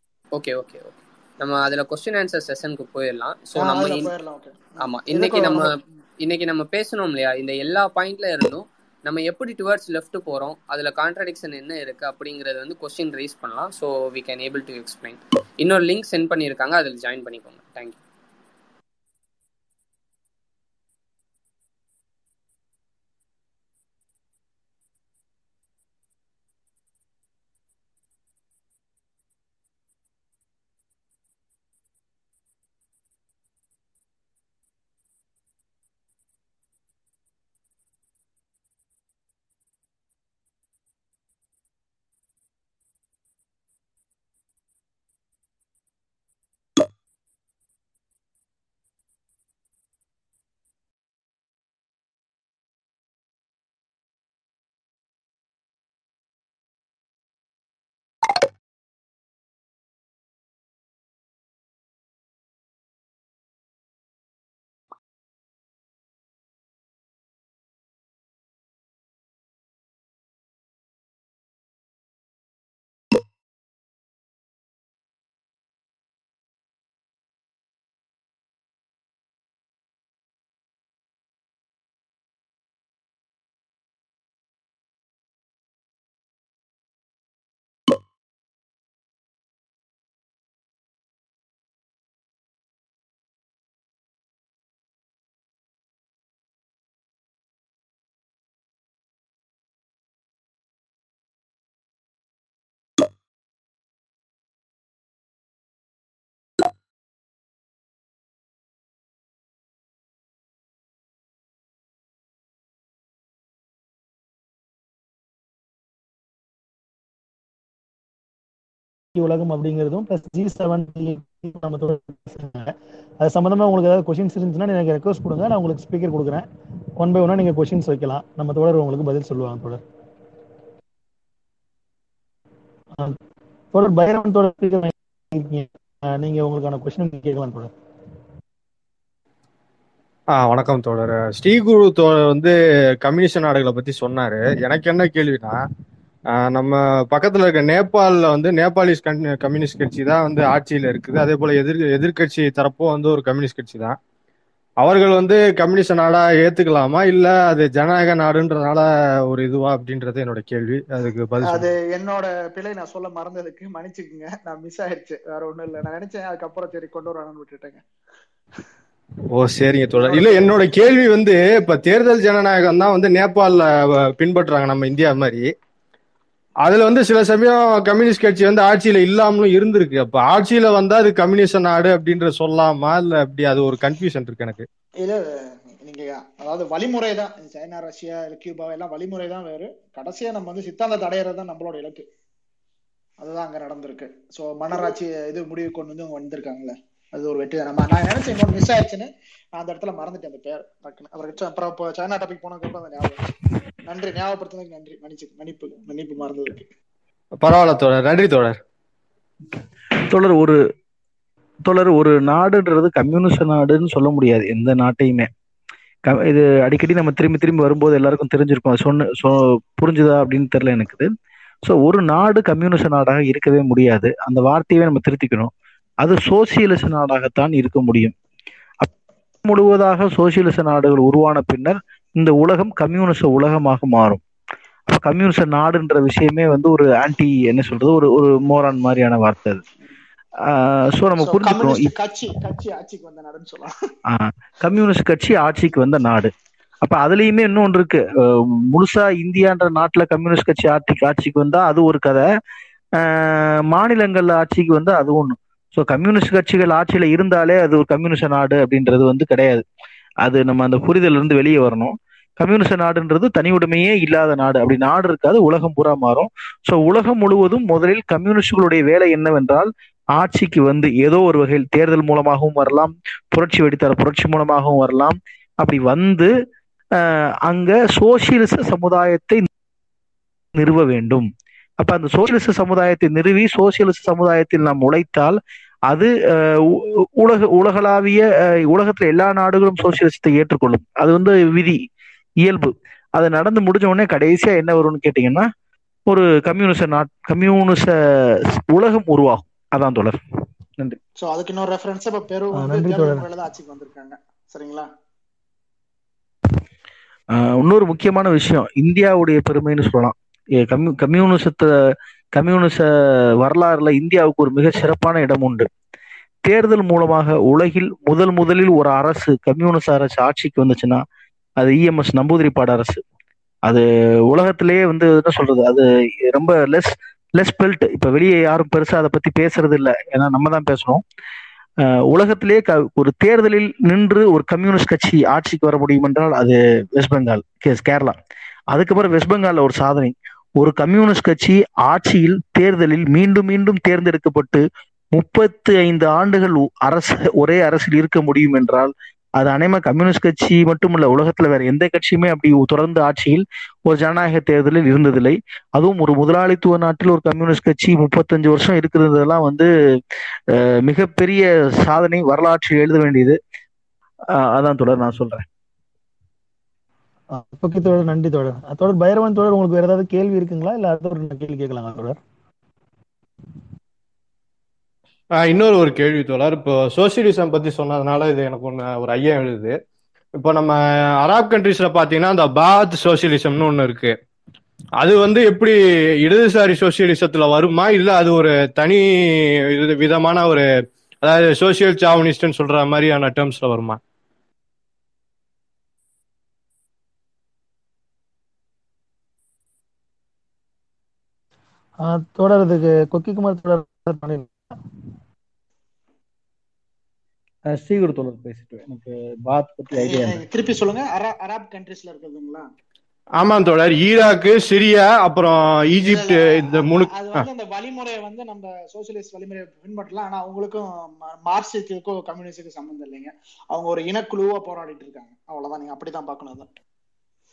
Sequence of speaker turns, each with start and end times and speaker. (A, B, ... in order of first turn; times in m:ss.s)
0:00.3-0:04.1 A
0:03.6-0:05.8 B
0:04.8-0:18.0 A
1:59.2-2:06.4 C
2:07.0-2:09.8 C
2:13.7-2:17.7 C
2:20.3-2:25.5 D
2:26.3-2:34.0 D
2:34.8-2:41.7 D
2:41.4-2:47.8 B
2:49.3-2:55.5 D
2:50.0-2:50.5 B
2:56.6-3:04.6 D
3:05.0-3:12.0 B
3:13.2-3:23.3 B
3:23.8-3:26.7 B
3:27.4-3:28.6 D
3:30.0-3:30.6 E
3:31.6-3:35.3 E
3:36.1-3:41.1 E
3:41.6-3:45.5 E
3:46.0-3:48.1 E
3:49.4-3:54.2 E
3:54.9-3:59.6 E
4:00.4-4:01.9 E
4:01.2-4:03.7 B
4:04.0-4:12.2 E
4:13.0-4:19.6 E
4:20.2-4:36.3 E
4:37.0-4:39.4 E
4:40.5-4:41.3 E
4:41.8-4:51.8 E
4:52.4-4:55.5 E
4:56.1-5:00.2 E
5:01.2-5:04.9 B
5:02.5-5:03.2 C
5:07.3-5:11.7 E
5:12.4-5:15.7 E
5:16.4-5:21.0 E
5:21.6-5:23.0 E
5:23.6-5:31.0 E
5:31.8-5:38.2 E
5:38.7-5:44.6 E
5:45.2-5:59.7 E
6:00.5-6:03.4 E
6:04.3-6:05.4 E
6:07.3-6:12.2 C
6:15.4-6:19.8 D
6:20.4-6:24.2 D
6:25.0-6:30.7 D
6:31.2-6:34.0 D
6:42.0-6:44.7 C
6:47.7-6:50.4 E
6:49.9-6:52.7 B
6:53.4-6:57.5 D
6:56.0-7:06.7 B